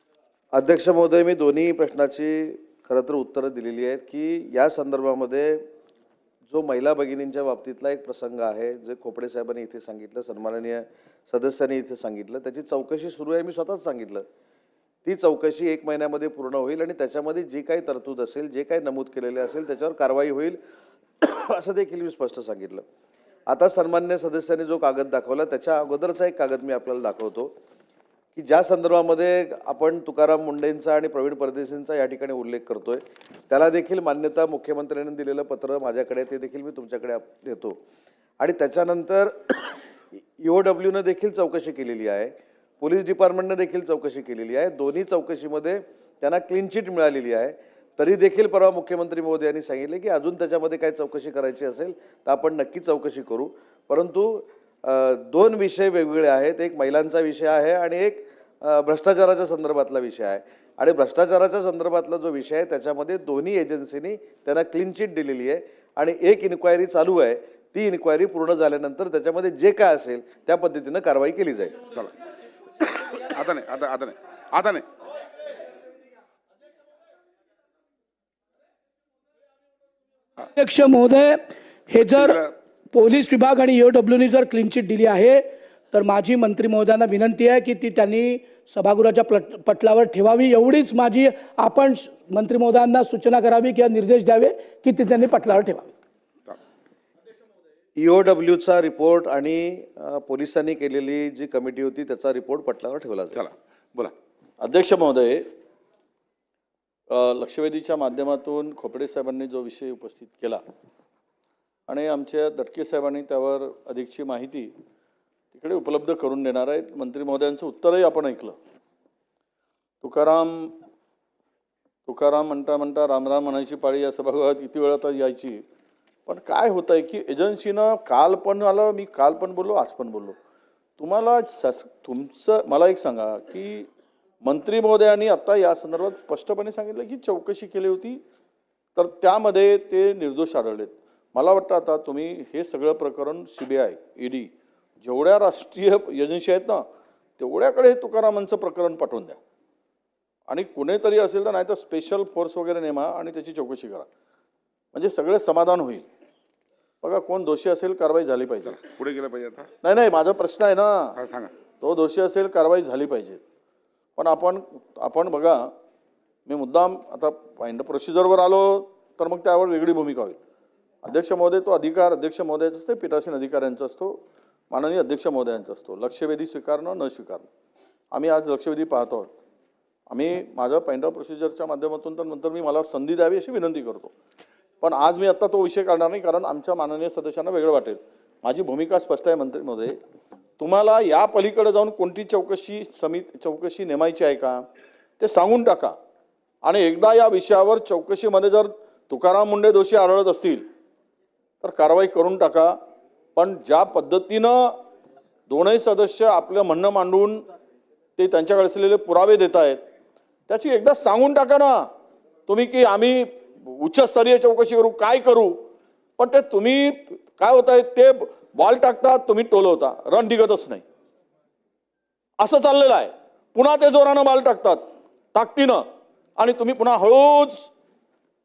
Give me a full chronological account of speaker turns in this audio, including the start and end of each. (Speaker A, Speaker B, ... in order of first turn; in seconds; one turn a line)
Speaker A: 0.5-5.6
Speaker A: 6.5-14.2
Speaker A: 15.0-20.6
Speaker A: 21.2-22.8
Speaker A: 23.5-27.5
Speaker A: 28.4-37.8
Speaker A: 38.4-71.7
Speaker B: 72.8-74.8
Speaker C: 80.4-95.9
Speaker A: 98.0-103.4
Speaker B: 103.3-104.1
Speaker D: 104.6-105.4
Speaker D: 107.1-110.6
Speaker D: 111.9-114.7
Speaker D: 115.5-118.5
Speaker D: 120.0-120.7
Speaker D: 122.1-125.6
Speaker D: 126.3-130.3
Speaker D: 131.0-133.9
Speaker D: 134.4-138.2
Speaker D: 138.9-146.8
Speaker D: 147.4-149.4
Speaker D: 150.5-154.1
Speaker D: 154.9-156.1
Speaker D: 157.0-158.8
Speaker B: 158.7-159.7
Speaker D: 159.8-161.1
Speaker B: 161.2-161.5
Speaker D: 161.8-163.4
Speaker D: 164.2-165.7
Speaker D: 166.4-170.4
Speaker D: 171.0-174.2
Speaker D: 174.7-177.5
Speaker D: 178.1-179.3
Speaker D: 180.1-184.1
Speaker D: 184.8-189.9
Speaker D: 190.6-194.6
Speaker D: 195.2-195.9
Speaker D: 196.6-200.7
Speaker D: 201.6-202.7
Speaker D: 203.3-204.7
Speaker D: 205.5-207.4
Speaker D: 208.2-209.8
Speaker D: 210.5-211.9
Speaker D: 212.5-215.6
Speaker D: 216.2-220.8
Speaker D: 222.4-224.8
Speaker D: 225.3-225.8
Speaker D: 226.4-227.7